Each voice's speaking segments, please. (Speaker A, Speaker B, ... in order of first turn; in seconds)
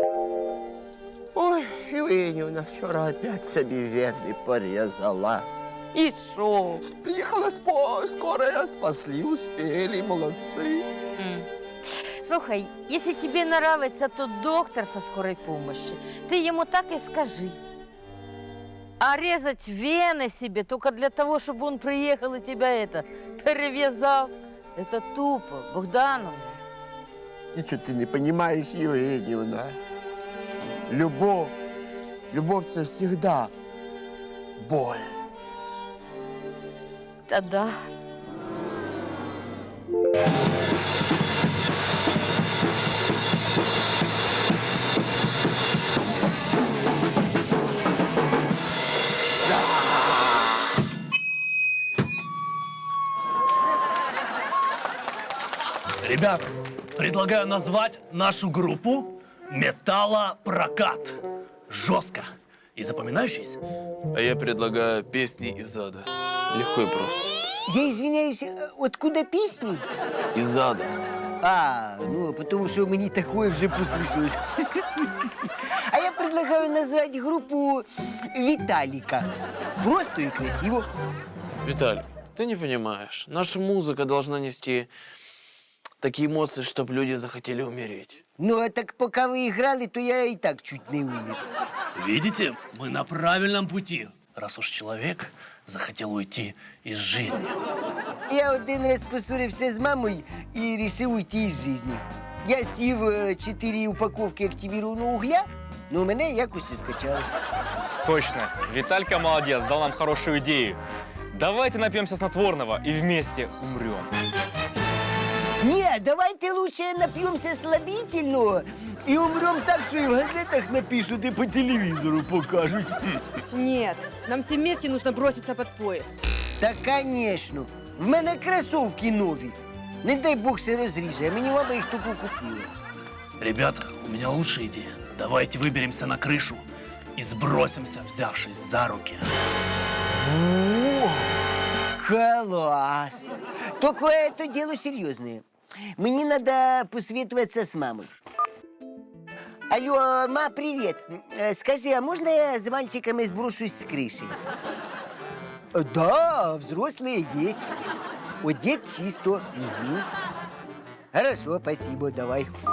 Speaker A: 1.3-5.5, 6.8-10.8, 27.5-29.8, 30.9-31.6, 32.3-33.5, 34.6-35.1
Speaker B: 5.9-6.8, 11.2-11.4, 12.0-17.6, 19.0-26.4, 37.3-37.8
Speaker C: 56.0-63.6, 91.9-97.5, 133.4-136.6, 137.2-139.3
Speaker D: 64.1-67.3, 70.3-70.9, 81.6-84.9, 86.0-88.2
Speaker E: 67.7-69.8, 71.4-75.1, 75.8-80.9, 88.4-91.4, 98.3-107.3, 115.6-123.2, 126.6-132.7, 140.2-141.3, 142.0-145.4, 146.0-148.1, 149.7-154.4, 155.7-157.7, 158.4-160.1, 161.1-162.5
Speaker F: 108.0-110.8, 111.3-114.1
Speaker G: 123.5-126.2